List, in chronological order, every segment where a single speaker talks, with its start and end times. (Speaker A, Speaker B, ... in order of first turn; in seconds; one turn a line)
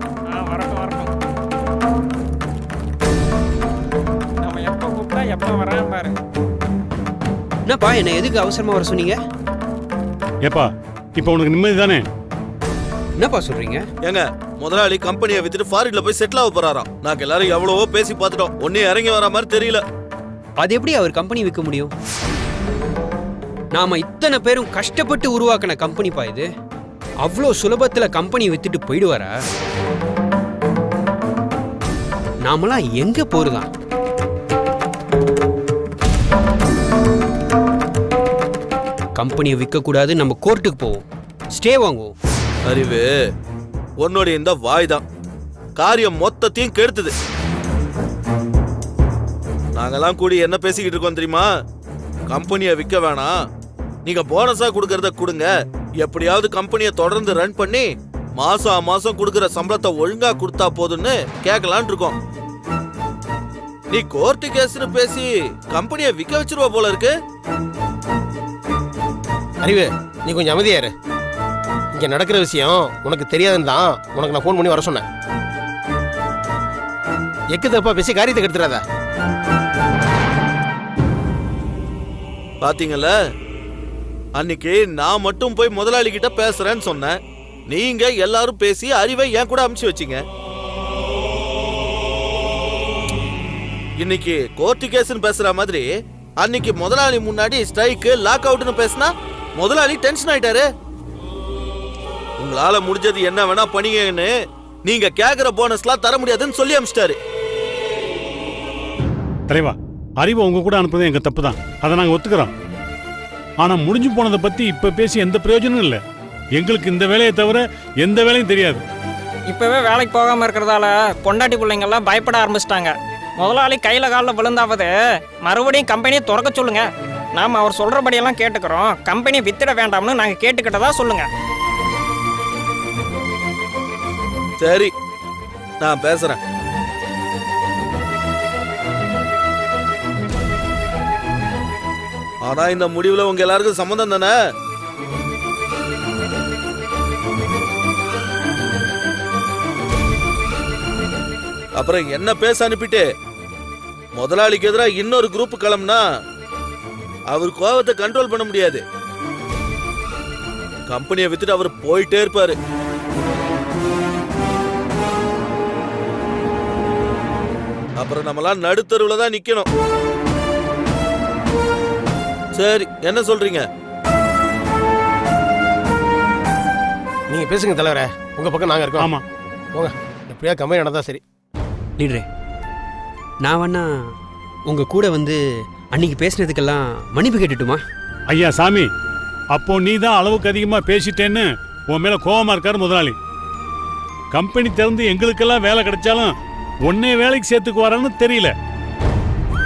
Speaker A: 0.3-1.1
Speaker A: 4.4-6.1
Speaker B: 7.7-9.2
Speaker C: 10.4-12.0
Speaker B: 13.2-13.8
Speaker D: 14.0-19.8
Speaker B: 20.6-21.9
Speaker B: 23.7-26.5
Speaker B: 27.2-29.3
Speaker B: 32.4-33.7
Speaker B: 39.2-42.1
Speaker D: 42.7-43.1
Speaker D: 44.0-45.0
Speaker D: 45.8-47.1
Speaker D: 49.8-51.5
Speaker D: 52.3-53.3
Speaker D: 54.0-55.5
Speaker D: 56.0-62.1
Speaker D: 63.9-67.1
Speaker E: 69.6-70.9
Speaker E: 72.0-75.0
Speaker E: 77.5-78.8
Speaker D: 82.6-83.1
Speaker D: 84.4-87.2
Speaker D: 87.7-90.2
Speaker D: 94.0-95.8
Speaker D: 96.4-100.7
Speaker D: 102.4-104.3
Speaker D: 104.8-107.2
Speaker C: 109.5-112.5
Speaker C: 113.6-116.0
Speaker C: 116.5-118.8
Speaker A: 119.5-131.3
Speaker D: 134.6-134.9
Speaker D: 135.8-136.4
Speaker D: 142.4-144.3
Speaker D: 151.8-153.0
Speaker D: 154.2-156.0
Speaker D: 157.3-158.8
Speaker D: 160.9-162.6
Speaker D: 168.0-169.7
Speaker D: 172.5-173.6
Speaker E: 177.3-179.1
Speaker C: 179.0-179.2
Speaker E: 179.7-181.2
Speaker B: 182.0-182.2
Speaker B: 183.4-183.9
Speaker B: 184.7-185.4
Speaker B: 185.9-187.8
Speaker C: 188.3-188.9
Speaker C: 189.5-193.1
Speaker C: 194.3-196.3
Speaker C: 196.9-198.5